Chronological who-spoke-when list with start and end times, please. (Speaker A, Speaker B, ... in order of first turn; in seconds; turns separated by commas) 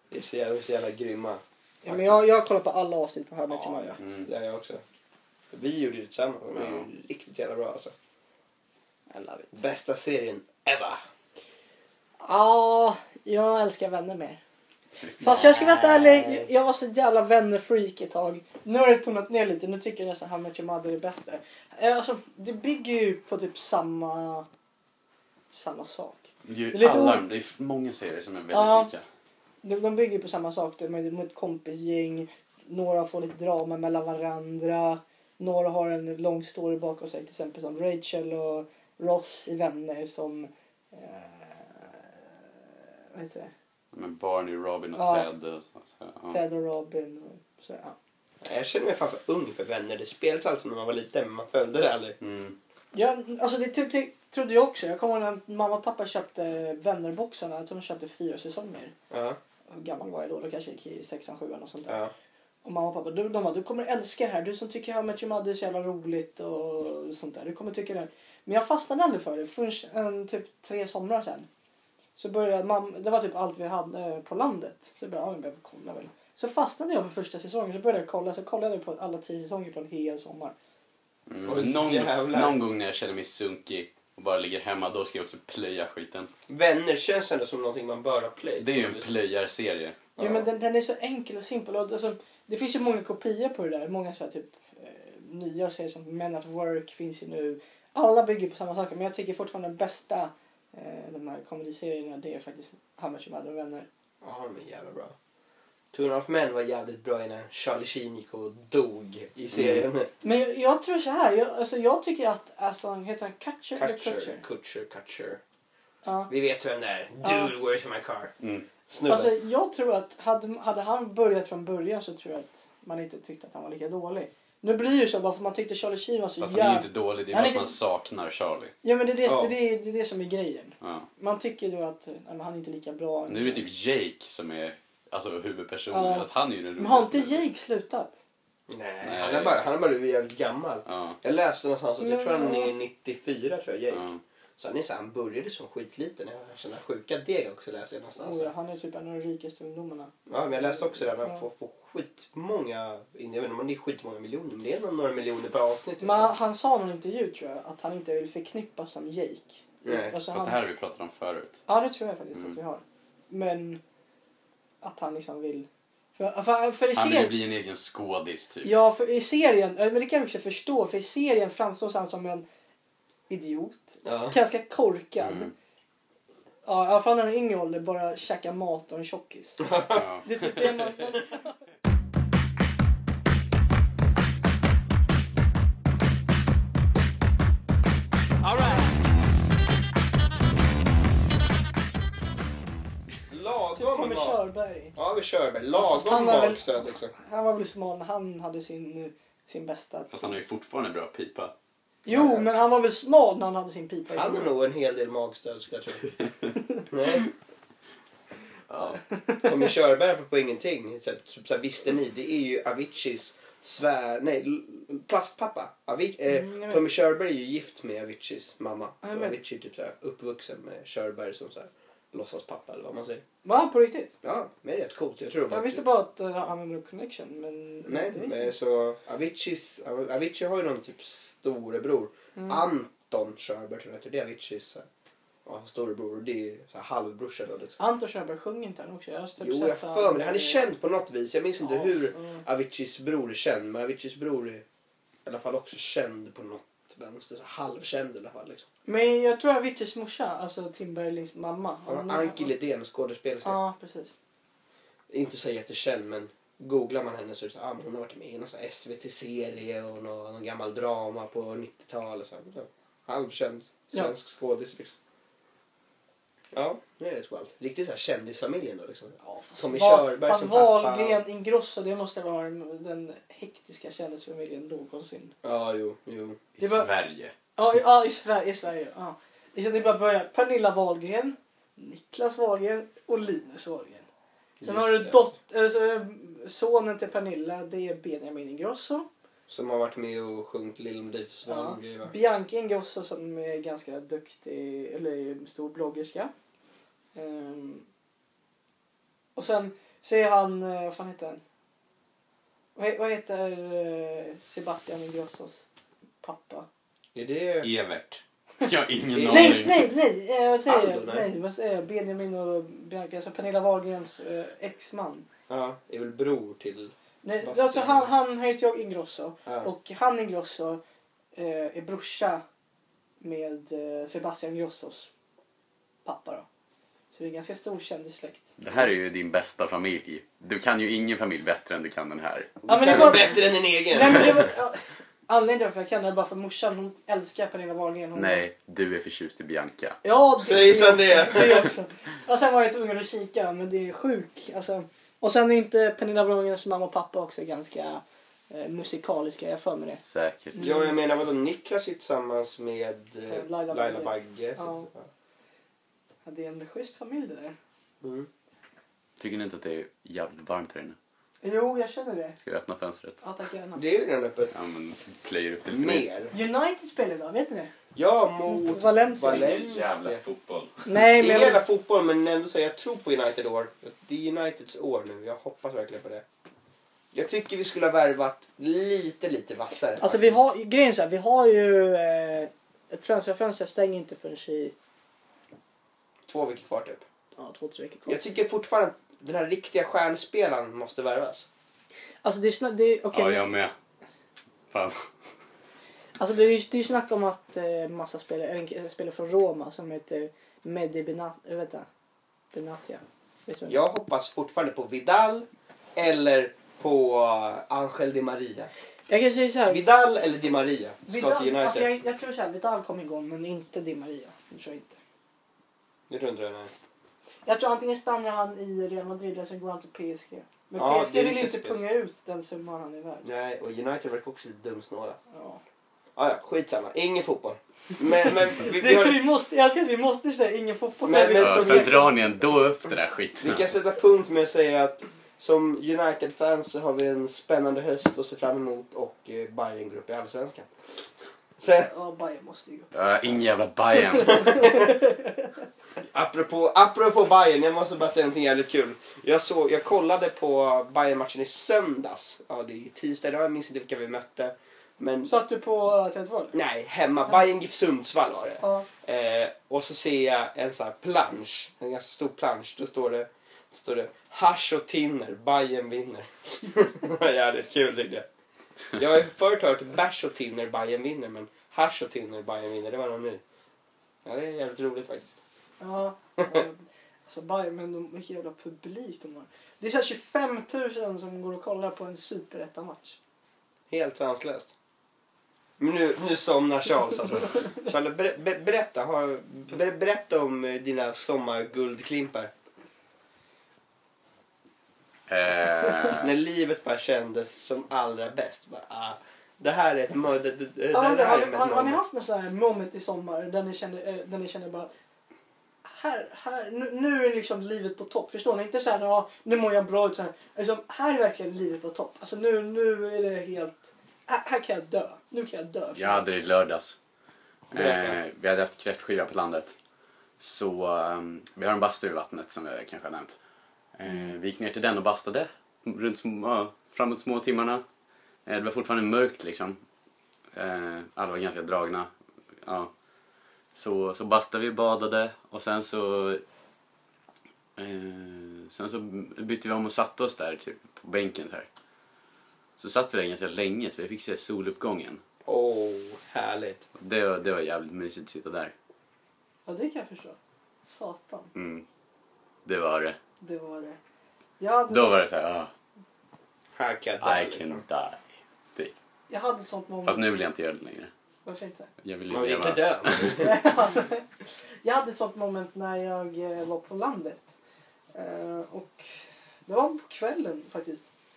Speaker A: 0.1-2.2, Speaker B: 1.8-4.0, Speaker A: 3.5-4.8, Speaker C: 4.0-4.3, Speaker A: 5.5-7.9, Speaker C: 6.5-6.9, Speaker B: 9.1-9.6, Speaker A: 9.5-11.0, Speaker B: 12.2-14.4, Speaker C: 15.0-15.8, Speaker B: 15.2-24.5, Speaker A: 15.3-16.4, Speaker B: 25.5-27.2, Speaker C: 26.4-29.1, Speaker B: 28.5-28.9, Speaker B: 29.6-42.0, Speaker B: 43.1-43.5, Speaker C: 43.9-46.4, Speaker B: 45.0-45.3, Speaker B: 46.3-48.0, Speaker A: 48.4-52.2, Speaker C: 52.2-52.6, Speaker B: 52.9-58.9, Speaker A: 59.1-59.4, Speaker B: 59.7-62.0, Speaker A: 61.9-62.1, Speaker B: 62.6-71.5, Speaker B: 72.2-80.5, Speaker C: 81.3-86.3, Speaker A: 81.5-82.6, Speaker A: 86.5-89.1, Speaker C: 88.6-90.0, Speaker A: 90.2-90.5, Speaker B: 90.2-103.9, Speaker A: 104.2-105.2, Speaker A: 105.9-110.1, Speaker C: 109.5-109.8, Speaker B: 110.2-114.4, Speaker A: 113.8-115.4, Speaker B: 116.0-116.3, Speaker A: 116.3-118.3, Speaker B: 117.2-117.5, Speaker C: 118.4-118.7, Speaker A: 118.9-119.3, Speaker B: 119.1-127.7, Speaker C: 126.4-128.7, Speaker B: 128.8-133.6, Speaker A: 129.2-129.5, Speaker C: 130.8-131.1, Speaker C: 133.3-137.4, Speaker B: 135.9-138.2, Speaker A: 138.7-148.5, Speaker C: 139.0-139.6, Speaker C: 140.9-141.2, Speaker B: 142.0-142.7, Speaker C: 143.9-144.2, Speaker B: 148.2-151.4, Speaker A: 150.3-156.3, Speaker B: 156.0-160.7, Speaker A: 159.8-160.2, Speaker C: 160.3-161.6, Speaker B: 161.7-163.8, Speaker B: 164.8-167.3, Speaker C: 166.9-168.8, Speaker B: 168.6-172.4, Speaker B: 173.3-175.5, Speaker A: 174.1-174.4, Speaker C: 175.2-175.5, Speaker B: 176.7-181.5, Speaker A: 179.6-180.0, Speaker C: 179.9-180.9, Speaker A: 193.3-194.4, Speaker B: 193.8-195.0, Speaker A: 195.0-197.1, Speaker B: 195.7-200.4, Speaker C: 200.1-201.5, Speaker B: 202.0-204.5, Speaker A: 202.1-202.5, Speaker A: 204.1-206.1, Speaker A: 206.9-207.3, Speaker C: 208.7-209.0, Speaker A: 209.4-223.2, Speaker B: 216.3-216.8, Speaker B: 219.0-219.4, Speaker B: 223.4-224.1, Speaker A: 224.2-225.8, Speaker B: 225.5-228.5, Speaker A: 227.9-234.9, Speaker B: 232.4-232.6, Speaker A: 235.4-237.8, Speaker B: 237.8-240.6, Speaker A: 239.4-244.6, Speaker B: 241.6-242.4, Speaker A: 245.2-248.7, Speaker B: 248.9-252.5, Speaker A: 251.9-253.6, Speaker B: 253.4-254.2, Speaker A: 255.1-265.0, Speaker A: 266.5-271.2, Speaker B: 269.2-275.3, Speaker A: 275.4-276.4, Speaker C: 276.6-277.3, Speaker B: 276.6-276.9, Speaker B: 277.6-284.1, Speaker A: 284.6-285.2, Speaker B: 284.6-289.1, Speaker A: 289.5-292.1, Speaker B: 291.5-296.3, Speaker B: 297.1-297.9, Speaker B: 299.4-301.4, Speaker B: 302.8-305.6, Speaker B: 306.2-306.7, Speaker A: 307.1-307.7, Speaker C: 307.6-309.9, Speaker A: 309.1-309.8, Speaker B: 309.3-315.3, Speaker A: 310.7-311.3, Speaker A: 315.5-318.1, Speaker B: 317.2-320.8, Speaker B: 321.4-322.4, Speaker B: 323.2-325.1, Speaker B: 326.1-326.5, Speaker B: 327.1-328.5, Speaker C: 328.6-333.2, Speaker A: 332.7-334.5, Speaker B: 332.7-338.4, Speaker C: 338.1-340.0, Speaker B: 340.0-350.0, Speaker A: 340.4-341.7, Speaker C: 350.0-350.6, Speaker B: 350.5-351.0, Speaker A: 350.6-355.1, Speaker B: 353.3-354.9, Speaker B: 356.2-357.6, Speaker A: 358.0-358.3, Speaker C: 359.2-361.0, Speaker B: 361.4-362.4, Speaker C: 362.4-363.2, Speaker B: 363.2-363.9, Speaker A: 363.8-364.5, Speaker C: 364.5-366.1, Speaker A: 365.7-366.3, Speaker B: 366.3-367.7, Speaker A: 367.9-370.2, Speaker B: 368.5-369.6, Speaker C: 369.2-370.9, Speaker B: 370.9-371.6, Speaker A: 371.1-376.2, Speaker A: 377.1-380.5, Speaker B: 380.0-384.7, Speaker A: 386.3-387.1, Speaker B: 387.4-388.2, Speaker A: 388.1-391.5, Speaker B: 392.2-393.5, Speaker C: 393.1-393.7, Speaker C: 394.7-395.1, Speaker B: 396.2-401.9, Speaker B: 402.5-403.8, Speaker A: 403.7-408.7, Speaker B: 409.1-409.8, Speaker A: 409.7-411.9, Speaker B: 411.1-415.0, Speaker A: 416.1-416.7, Speaker B: 417.5-423.2, Speaker A: 420.8-421.8, Speaker A: 423.2-425.2, Speaker B: 425.3-425.6, Speaker A: 426.2-429.2, Speaker B: 428.6-432.1, Speaker A: 431.0-432.1, Speaker C: 431.4-433.7, Speaker A: 433.4-440.7, Speaker A: 441.6-441.9, Speaker B: 441.6-442.9, Speaker C: 442.9-444.8, Speaker B: 444.0-445.5, Speaker A: 444.6-444.9, Speaker A: 446.1-455.3, Speaker B: 455.2-456.6, Speaker A: 456.5-468.3, Speaker B: 458.6-458.9, Speaker A: 469.0-473.4, Speaker A: 474.2-475.4, Speaker B: 475.8-483.2, Speaker A: 483.9-484.7, Speaker A: 485.8-492.5, Speaker C: 495.3-496.3, Speaker A: 496.2-502.0, Speaker B: 500.9-504.9, Speaker B: 505.8-516.2, Speaker C: 516.0-517.0, Speaker A: 517.7-518.2, Speaker C: 517.7-519.7, Speaker C: 520.4-523.4, Speaker C: 524.0-527.8, Speaker B: 524.1-524.4, Speaker C: 528.5-529.8, Speaker C: 530.5-532.1, Speaker C: 532.6-532.9, Speaker C: 533.7-536.4, Speaker C: 537.8-541.7, Speaker C: 542.8-545.2, Speaker A: 545.5-546.9, Speaker C: 547.0-548.7, Speaker B: 549.7-551.5, Speaker C: 551.5-551.9, Speaker C: 552.6-553.2, Speaker B: 553.4-554.0, Speaker B: 554.6-555.2, Speaker C: 554.9-555.7, Speaker A: 556.8-557.8, Speaker C: 557.2-558.2, Speaker B: 559.3-560.2, Speaker C: 560.0-561.1, Speaker B: 561.5-561.9, Speaker C: 562.0-563.5, Speaker A: 562.3-563.7, Speaker B: 563.3-564.3, Speaker B: 564.8-567.4, Speaker B: 568.1-569.1, Speaker B: 569.7-571.1